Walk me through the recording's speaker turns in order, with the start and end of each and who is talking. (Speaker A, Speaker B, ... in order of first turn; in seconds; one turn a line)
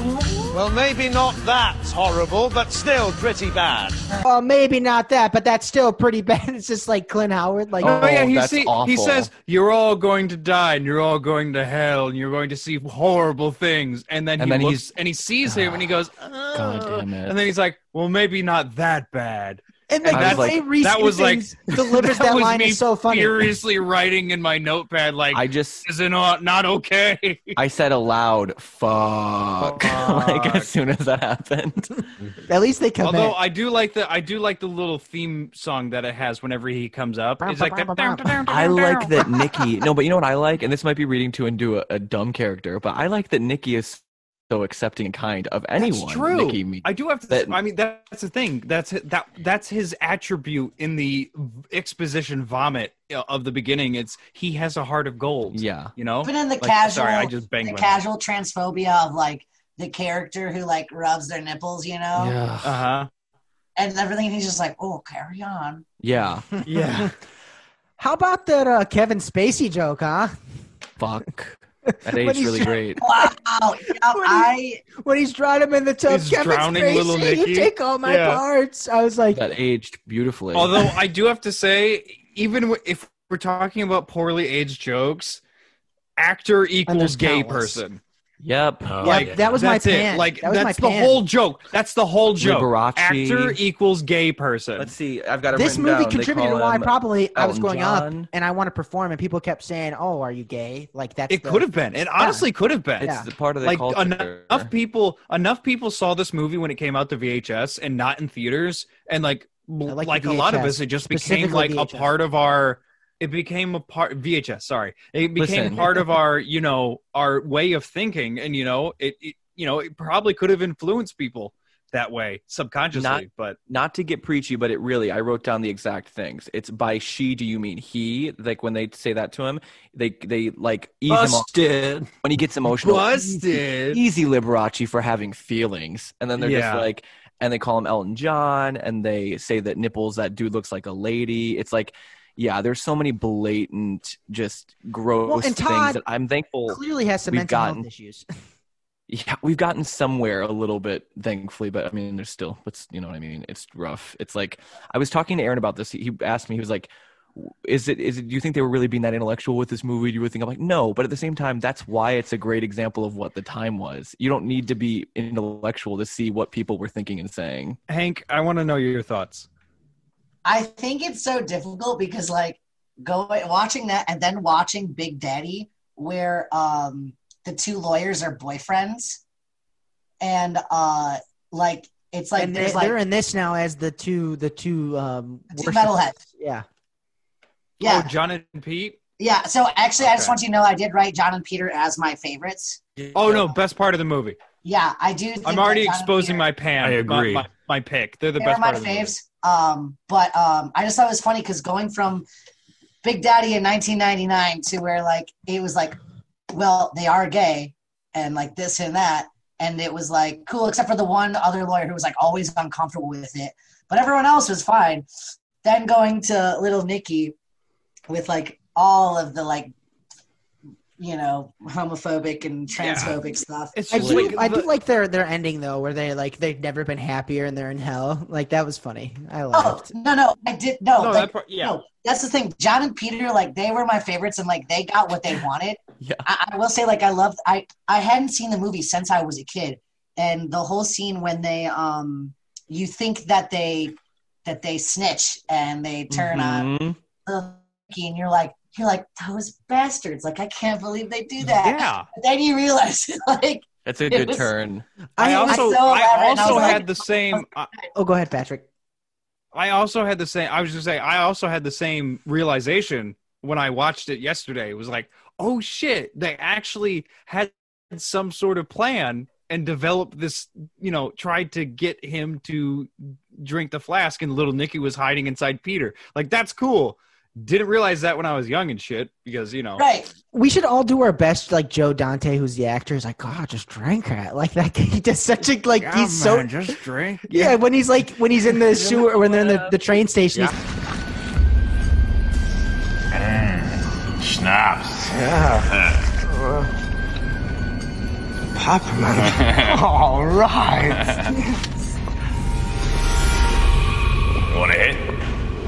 Speaker A: 0.5-4.0
Speaker B: 4.2-8.2
Speaker C: 7.8-9.3
Speaker D: 7.8-27.6
Speaker C: 14.4-14.9
Speaker C: 15.4-15.9
Speaker C: 16.5-17.4
Speaker B: 19.9-23.4
Speaker C: 20.1-20.6
Speaker C: 25.3-25.9
Speaker C: 27.6-32.0
Speaker D: 29.6-30.7
Speaker B: 32.5-33.4
Speaker D: 33.0-39.1
Speaker B: 37.4-38.4
Speaker C: 38.5-47.6
Speaker D: 45.8-58.0
Speaker C: 55.5-55.9
Speaker E: 56.2-62.4
Speaker C: 62.1-62.9
Speaker D: 62.6-63.1
Speaker E: 63.8-65.8
Speaker C: 66.0-66.5
Speaker D: 66.7-67.1
Speaker B: 68.0-70.3
Speaker C: 71.0-73.0
Speaker B: 72.1-73.3
Speaker E: 73.0-74.8
Speaker B: 74.1-79.4
Speaker D: 76.1-78.4
Speaker C: 79.3-80.9
Speaker D: 80.5-85.4
Speaker D: 86.2-88.0
Speaker B: 86.9-87.8
Speaker C: 88.4-89.2
Speaker F: 88.9-89.6
Speaker D: 89.0-94.9
Speaker B: 89.0-91.2
Speaker C: 92.4-93.6
Speaker C: 94.8-98.3
Speaker B: 95.5-101.7
Speaker D: 101.3-103.1
Speaker B: 102.2-102.5
Speaker C: 103.0-104.7
Speaker B: 103.0-103.3
Speaker D: 103.6-123.6
Speaker B: 109.9-112.1
Speaker C: 115.4-115.9
Speaker C: 122.9-131.5
Speaker F: 131.1-132.1
Speaker C: 132.2-147.9
Speaker D: 132.8-134.0
Speaker D: 136.4-136.9
Speaker B: 145.3-146.0
Speaker B: 146.7-148.3
Speaker C: 149.1-167.8
Speaker D: 167.9-169.5
Speaker E: 170.4-179.2
Speaker E: 180.2-183.0
Speaker B: 182.4-186.7
Speaker E: 185.5-186.2
Speaker E: 187.8-188.1
Speaker D: 187.8-189.0
Speaker E: 189.2-192.8
Speaker D: 190.0-190.4
Speaker D: 193.1-194.4
Speaker C: 193.2-193.5
Speaker E: 194.6-196.5
Speaker D: 195.4-199.1
Speaker F: 196.8-197.5
Speaker E: 198.4-202.3
Speaker E: 203.0-206.0
Speaker E: 206.5-215.1
Speaker E: 215.6-217.3
Speaker E: 218.1-219.7
Speaker E: 221.0-224.4
Speaker D: 222.8-223.1
Speaker D: 223.7-224.7
Speaker B: 223.9-229.9
Speaker E: 229.5-246.7
Speaker D: 231.0-231.7
Speaker F: 231.1-231.7
Speaker C: 236.0-236.3
Speaker C: 246.1-247.0
Speaker E: 247.3-254.5
Speaker D: 251.5-252.1
Speaker C: 253.9-254.9
Speaker B: 255.2-255.8
Speaker D: 255.2-257.7
Speaker E: 255.5-257.1
Speaker B: 256.4-256.8
Speaker B: 257.9-258.6
Speaker D: 259.5-279.8
Speaker E: 279.8-280.1
Speaker B: 280.3-286.6
Speaker D: 285.8-287.6
Speaker B: 287.3-290.5
Speaker A: 293.2-293.6
Speaker A: 294.2-295.7
Speaker A: 298.6-301.4
Speaker A: 304.5-305.0